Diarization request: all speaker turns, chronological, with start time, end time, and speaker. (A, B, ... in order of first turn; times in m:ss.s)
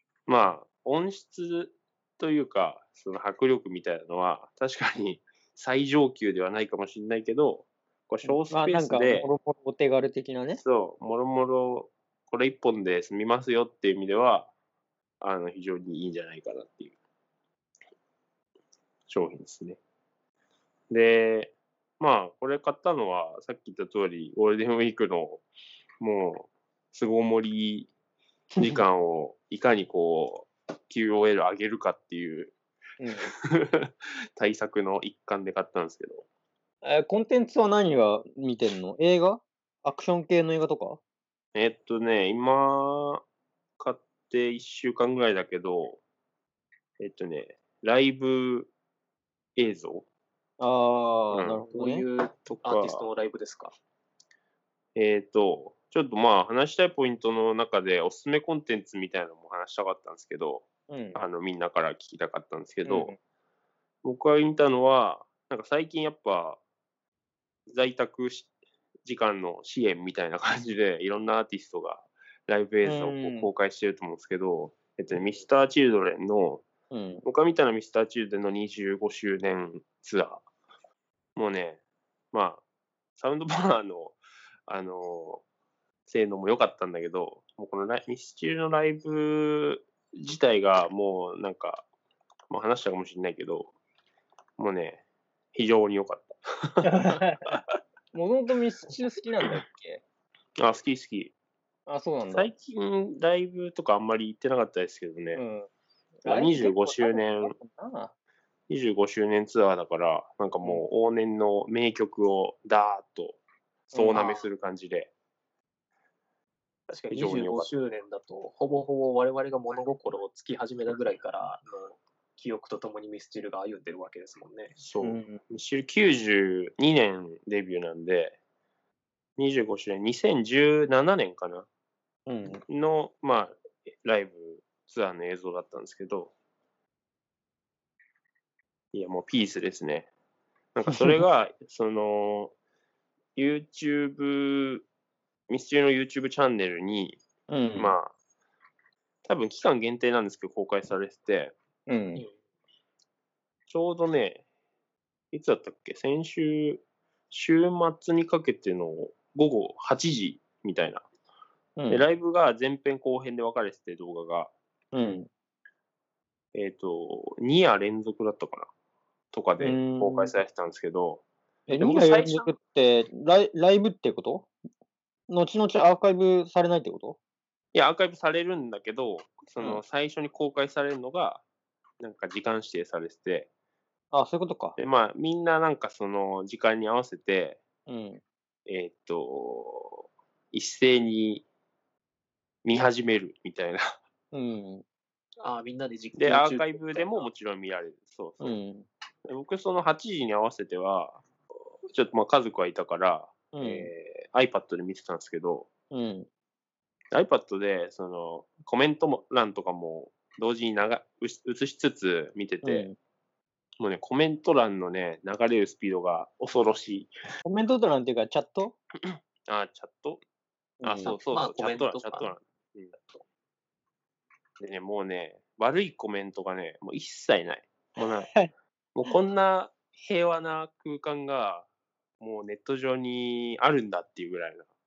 0:00.3-0:09.3 A
0:08.2-0:10.6 B
0:10.5-0:14.5 A
0:15.2-0:17.0 A
0:19.1-0:19.8 A
0:20.9-0:25.4 A
0:26.0-0:27.9 A
0:28.6-0:32.6 A
0:33.0-0:33.3 B
0:33.5-0:36.2 A
0:36.8-0:41.0 B
0:41.5-0:43.2 A
0:43.8-0:46.0 A
0:47.0-0:48.7 A
0:49.6-0:50.1 A
0:50.6-0:52.0 B
0:51.3-0:51.6 A
0:51.7-0:53.7 C
0:52.4-0:53.0 A
0:55.0-1:03.1 A
1:00.9-1:01.2 B
1:02.8-1:03.2 B
1:04.0-1:06.6 A
1:07.7-1:08.5 A
1:09.0-1:16.6 A
1:12.8-1:13.5 B
1:16.9-1:17.2 B
1:17.2-1:20.4 A
1:21.4-1:21.8 A
1:22.3-1:22.6 A
1:23.2-1:25.4 A
1:26.1-1:31.8 A
1:32.5-1:33.7 A
1:34.6-1:35.0 A
1:35.5-1:36.9 A
1:36.8-1:37.4 B
1:38.1-1:40.0 B
1:40.6-1:41.3 A
1:41.9-1:42.5 B
1:42.3-1:45.4 A
1:45.3-1:45.7 B
1:46.2-1:48.1 B
1:46.2-1:47.5 A
1:48.7-1:53.4 A
1:53.9-1:55.1 A
1:53.9-1:54.4 C
1:56.9-2:04.8 C
1:57.1-1:57.7 A
2:04.8-2:08.4 A
2:05.0-2:05.4 B
2:09.4-2:11.7 A
2:12.2-2:12.6 B
2:12.7-2:16.3 A
2:18.9-2:20.1 A
2:20.7-2:22.5 A
2:20.9-2:21.2 B
2:23.4-2:24.8 A
2:25.5-2:27.2 A
2:27.5-2:28.0 B
2:27.8-2:28.1 A
2:29.2-2:31.5 A
2:31.9-2:32.2 B
2:33.7-2:34.4 A
2:35.3-2:41.0 A
2:41.8-2:42.0 B
2:41.9-2:44.5 A
2:44.9-2:45.3 B
2:46.5-2:48.7 A
2:49.3-2:51.2 A
2:49.6-2:50.3 B
2:51.7-2:54.5 B
2:51.8-2:52.5 A
2:55.3-2:57.2 B
2:57.7-3:01.4 A
3:02.0-3:03.5 A
3:04.1-3:04.8 B
3:04.8-3:07.6 A
3:07.9-3:08.2 B
3:08.6-3:11.4 A
3:12.6-3:13.8 A
3:14.3-3:14.8 B
3:15.4-3:17.3 C
3:16.2-3:18.6 A
3:18.4-3:18.9 B
3:19.3-3:21.2 A
3:21.9-3:25.7 A
3:23.5-3:23.9 B
3:25.9-3:26.3 B
3:27.1-3:32.9 A
3:32.6-3:32.9 B
3:33.8-3:37.1 A
3:37.4-3:38.8 B
3:39.5-3:40.2 A
3:40.8-3:41.2 B
3:40.8-3:42.9 A
3:41.0-3:42.3 C
3:44.6-3:48.3 A
3:48.1-3:48.5 B
3:48.9-3:51.7 A
3:52.2-3:54.7 A